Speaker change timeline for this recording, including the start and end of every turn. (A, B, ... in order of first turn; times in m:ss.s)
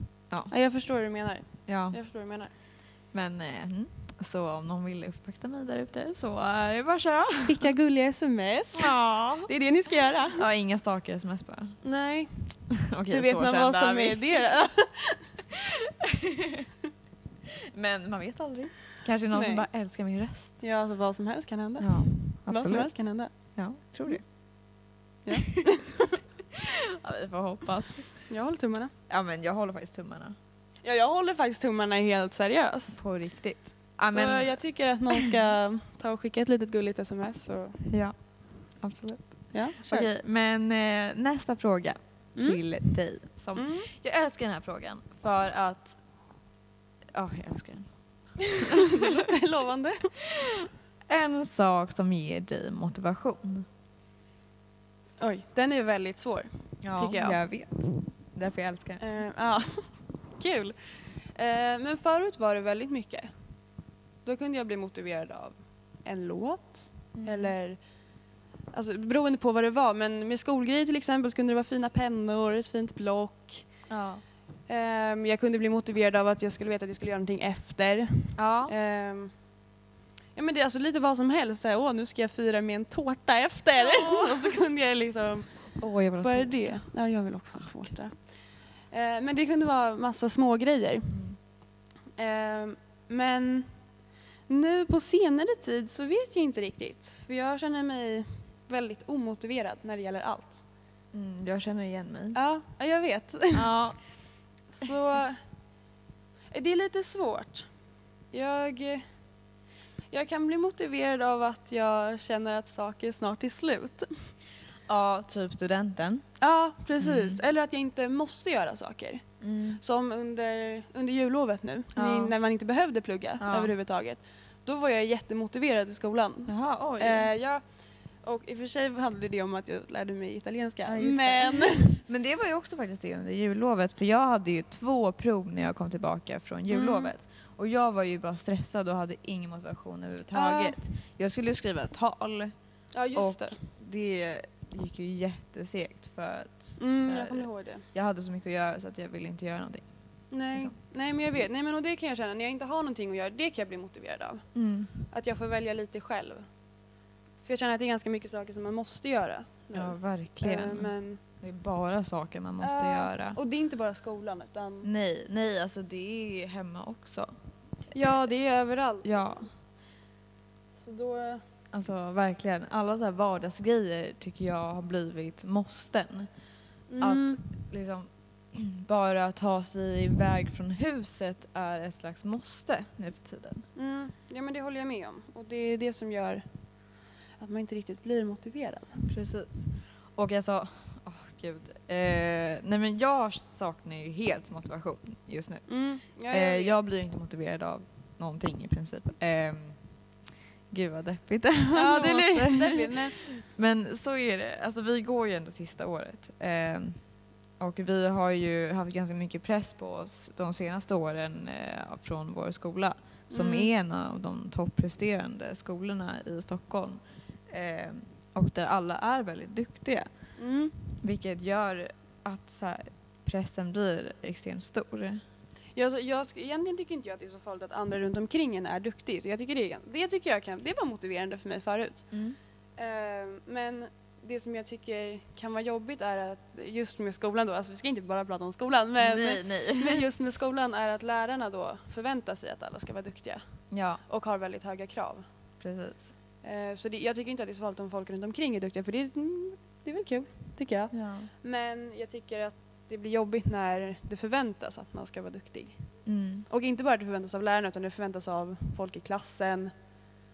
0:00.5-0:02.5 A
0:01.7-0:02.0 B
0:03.1-0:07.6 B
0:07.4-0:10.4 A
0:08.7-0:09.5 B
0:10.3-0:11.8 B
0:11.8-0:15.2 A
0:12.8-0:14.4 B
0:15.5-0:16.7 B
0:17.7-0:20.6 B
0:19.3-0:19.7 A
0:20.6-0:23.3 A
0:21.8-0:24.2 B
0:25.2-0:26.2 A
0:26.6-0:28.3 B
0:28.3-0:28.9 A
0:29.1-0:30.4 B
0:30.8-0:33.0 A
0:33.0-0:34.6 B
0:34.1-0:37.8 A
0:37.9-0:38.2 B
0:38.8-0:46.0 B
0:39.5-0:40.1 A
0:43.6-0:43.9 A
0:47.1-0:49.1 B
0:48.7-0:50.2 A
0:51.1-0:53.7 B
0:55.2-0:57.4 A
0:56.8-0:59.0 B
0:59.0-1:03.3 A
1:04.2-1:07.8 A
1:07.2-1:07.6 B
1:08.7-1:13.7 A
1:13.9-1:14.2 B
1:14.7-1:19.3 A
1:18.4-1:18.7 B
1:20.4-1:25.7 A
1:23.8-1:24.5 B
1:25.8-1:26.8 B
1:26.2-1:28.2 A
1:28.9-1:31.2 A
1:31.1-1:31.4 B
1:32.2-1:33.7 A
1:34.5-1:40.6 A
1:41.1-1:42.4 B
1:42.3-1:43.7 A
1:43.5-1:44.0 B
1:44.7-1:45.4 A
1:46.5-1:47.7 A
1:48.3-1:49.0 A
1:50.1-1:54.1 A
1:54.9-1:56.2 B
1:56.4-1:59.2 A
1:57.0-1:57.4 B
1:59.4-1:59.8 B
1:59.8-2:07.6 A
2:02.0-2:02.4 B
2:03.4-2:03.7 B
2:06.5-2:07.3 B
2:08.2-2:12.0 A
2:10.8-2:22.5 B
2:16.7-2:17.1 A
2:20.3-2:20.8 A
2:22.9-2:23.6 A
2:23.1-2:29.9 B
2:26.8-2:27.8 A
2:30.3-2:34.5 A
2:34.6-2:34.9 B
2:35.1-2:36.5 A
2:37.4-2:41.2 A
2:39.7-2:43.4 B
2:42.6-2:44.9 A
2:44.8-2:47.3 B
2:47.9-2:49.4 A
2:49.0-2:49.5 B
2:50.8-2:51.4 A
2:51.7-2:56.3 B
2:56.9-2:57.4 A
2:57.0-3:03.7 B
3:03.8-3:06.4 A
3:07.4-3:09.1 A
3:09.1-3:15.7 B
3:15.7-3:16.8 A
3:16.3-3:19.8 B
3:20.7-3:27.0 B
3:21.7-3:23.3 A
3:27.6-3:40.1 B
3:33.3-3:33.7 A
3:40.4-3:40.8 A
3:41.0-3:45.2 B
3:45.8-3:52.1 A
3:52.1-3:52.4 B
3:52.8-4:03.4 A
3:59.0-4:00.0 B
4:03.7-4:04.0 B
4:04.1-4:05.2 A
4:05.6-4:06.1 B
4:06.4-4:15.8 A
4:10.9-4:11.3 B
4:16.1-4:16.5 B
4:16.5-4:19.7 A